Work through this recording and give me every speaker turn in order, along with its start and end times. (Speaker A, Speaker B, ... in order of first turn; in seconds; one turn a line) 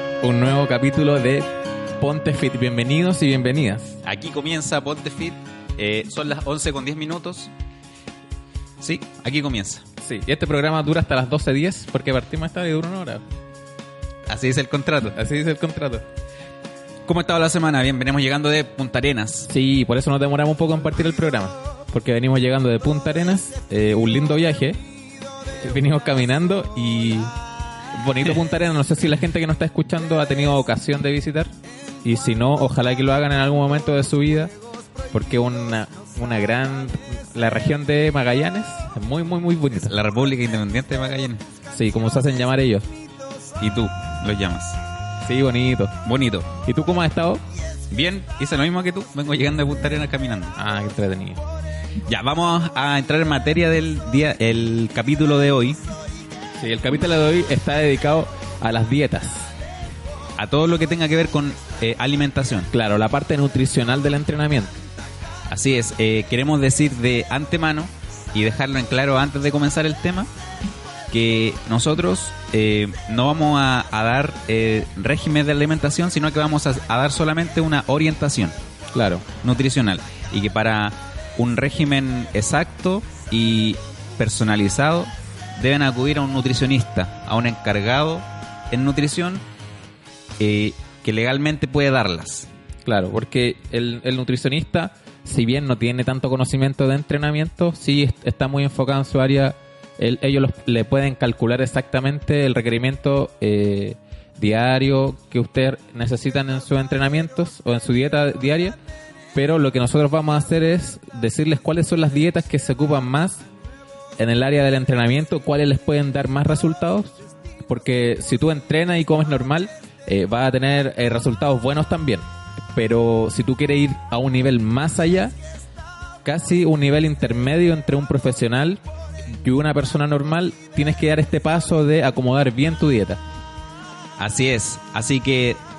Speaker A: 0.2-4.0
Speaker B: 4.0-7.5
Speaker B: 8.8-9.8
Speaker A: 10.0-13.2
Speaker B: 14.3-15.2
Speaker A: 15.1-16.1
Speaker B: 17.1-19.5
Speaker A: 19.5-24.8
Speaker A: 25.5-27.3
Speaker A: 27.9-31.5
Speaker A: 32.0-34.5
Speaker A: 35.1-40.0
Speaker B: 39.9-41.4
Speaker A: 41.7-42.9
Speaker B: 43.6-44.8
Speaker A: 45.2-46.0
Speaker B: 46.0-46.5
Speaker A: 46.6-47.4
Speaker B: 47.9-50.5
Speaker A: 50.5-51.4
Speaker B: 52.1-55.8
Speaker A: 56.6-59.5
Speaker B: 60.4-62.7
Speaker A: 62.7-64.8
Speaker B: 65.5-70.3
Speaker B: 71.1-78.6
Speaker A: 78.9-79.3
Speaker B: 79.4-89.4
Speaker B: 90.4-92.5
Speaker A: 92.8-108.8
Speaker A: 109.3-113.4
Speaker A: 114.2-125.3
Speaker A: 126.2-128.8
Speaker A: 129.4-133.2
Speaker B: 134.2-135.6